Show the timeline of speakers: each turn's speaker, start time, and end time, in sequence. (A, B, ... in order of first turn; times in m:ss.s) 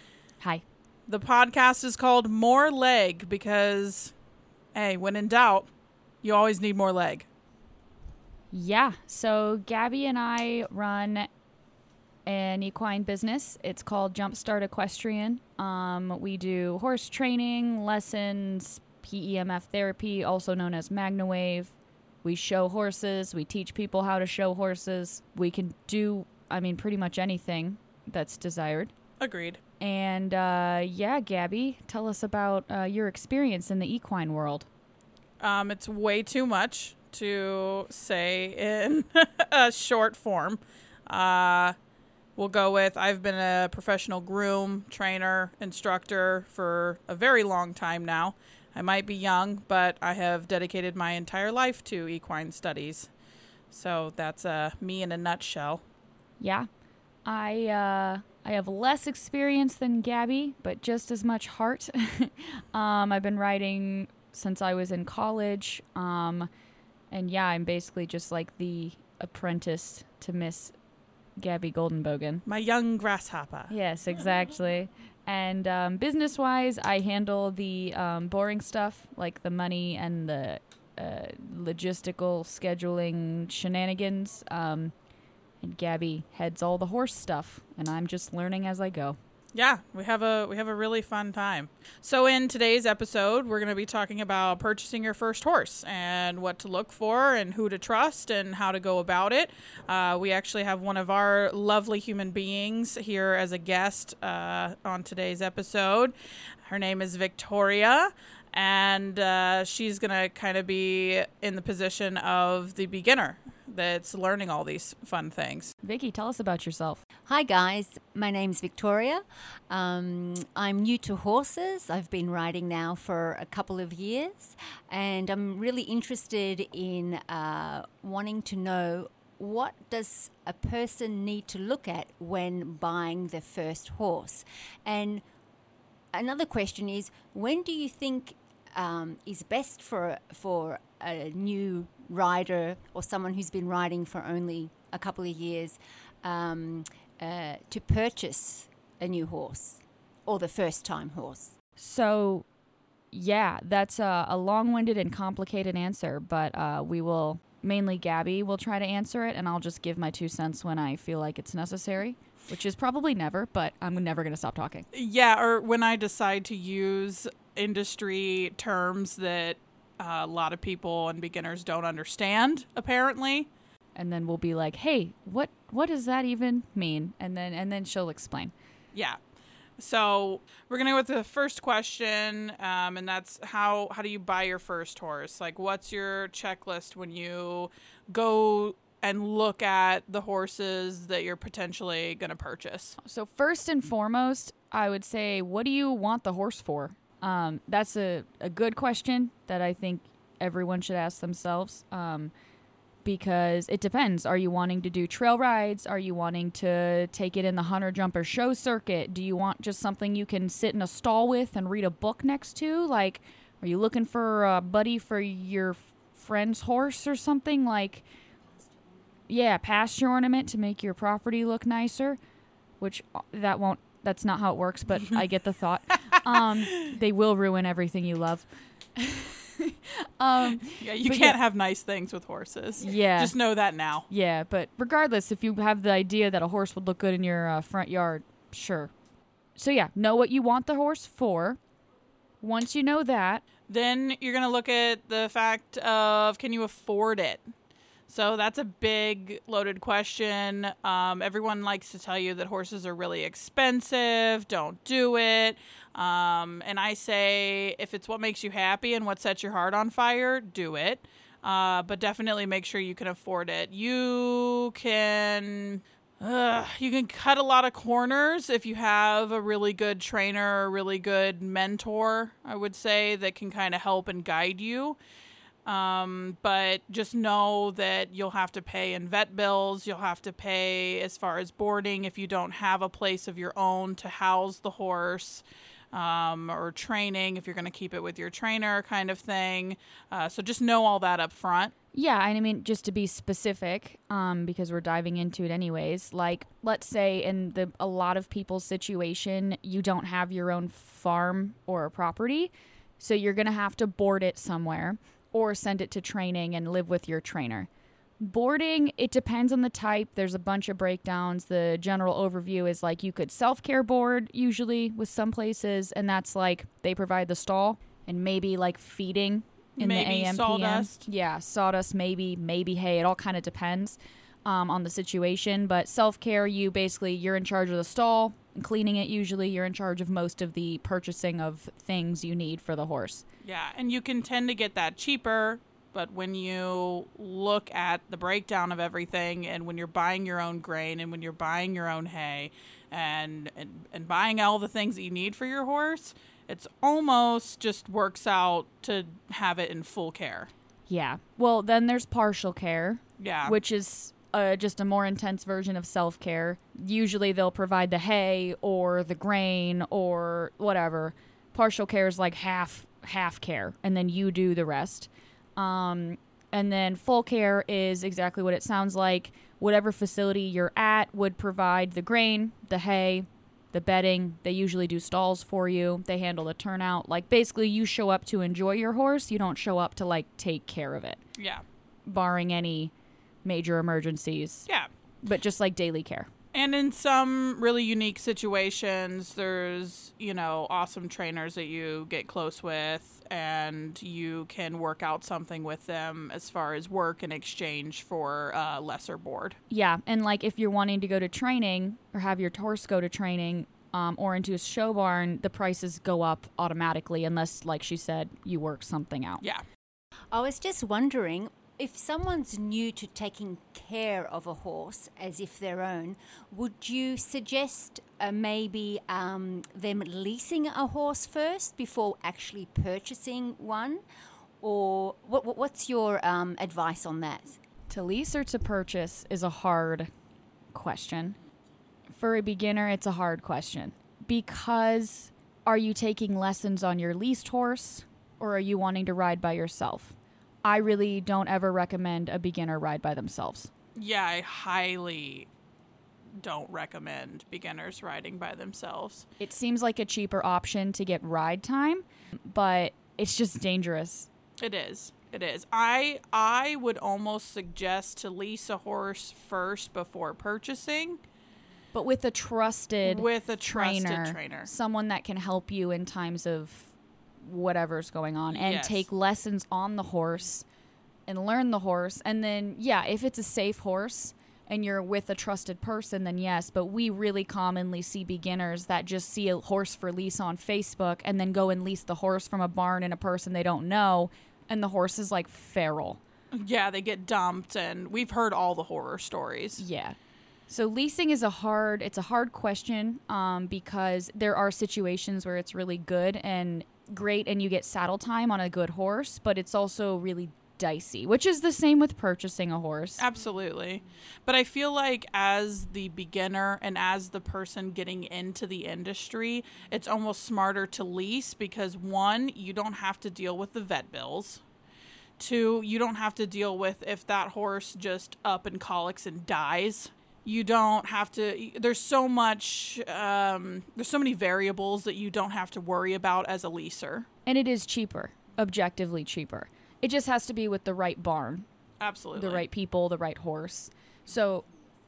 0:01.1-0:04.1 A
0:04.7-0:05.7 A
0:06.2-0:07.3 A
0:08.5-0:11.3 B
0:12.3-0:28.9 B
0:29.2-0:29.6 A
0:29.8-0:34.7 B
0:35.4-0:41.8 A
0:42.4-0:53.1 A
0:53.7-0:55.8 A
0:56.4-0:56.7 B
0:57.2-1:06.5 B
1:07.1-1:10.8 B
1:11.4-1:12.4 B
1:12.5-1:13.7 A
1:13.7-1:24.9 B
1:25.6-1:29.2 B
1:29.5-1:46.1 A
1:46.6-1:55.7 A
1:55.8-1:57.0 B
1:57.3-2:15.2 C
2:16.1-2:31.6 C
2:31.8-2:32.5 B
2:33.1-2:44.9 B
2:44.9-2:53.5 A
2:54.0-2:58.5 B
2:58.9-2:59.2 A
2:59.8-3:13.0 A
3:13.0-3:22.3 B
3:23.0-3:38.1 B
3:39.3-3:42.2 B
3:42.8-3:51.4 B
3:46.1-3:46.9 A
3:50.7-3:54.1 A
3:52.8-3:53.4 B
3:54.1-3:58.9 B
3:59.6-4:01.6 B
4:02.4-4:03.4 B
4:03.7-4:07.4 A
4:08.1-4:35.0 A
4:35.7-4:51.7 A
4:51.9-5:07.7 B
5:08.2-5:33.2 B
5:19.8-5:21.1 A
5:33.4-5:50.5 A
5:50.9-6:21.2 B
5:53.2-5:53.6 A
6:21.4-6:21.6 A
6:22.0-6:22.9 B
6:23.4-6:24.7 B
6:25.2-6:26.3 B
6:26.5-6:39.6 A
6:39.7-6:49.4 B
6:50.3-7:04.0 C
7:04.6-7:07.6 C
7:07.9-7:10.1 B
7:10.7-7:11.4 B
7:12.1-7:23.7 B
7:24.0-7:25.5 A
7:26.4-7:29.3 A
7:29.4-7:34.3 B
7:34.6-7:41.2 A
7:41.9-7:50.7 B
7:43.0-7:44.7 A
7:48.5-7:49.1 A
7:51.3-8:06.2 B
8:06.5-8:09.8 A
8:09.8-8:10.2 B
8:10.7-8:23.2 B
8:23.2-8:34.6 A
8:35.4-8:47.3 A
8:47.5-8:51.7 B
8:52.0-8:52.6 A
8:52.4-8:54.6 B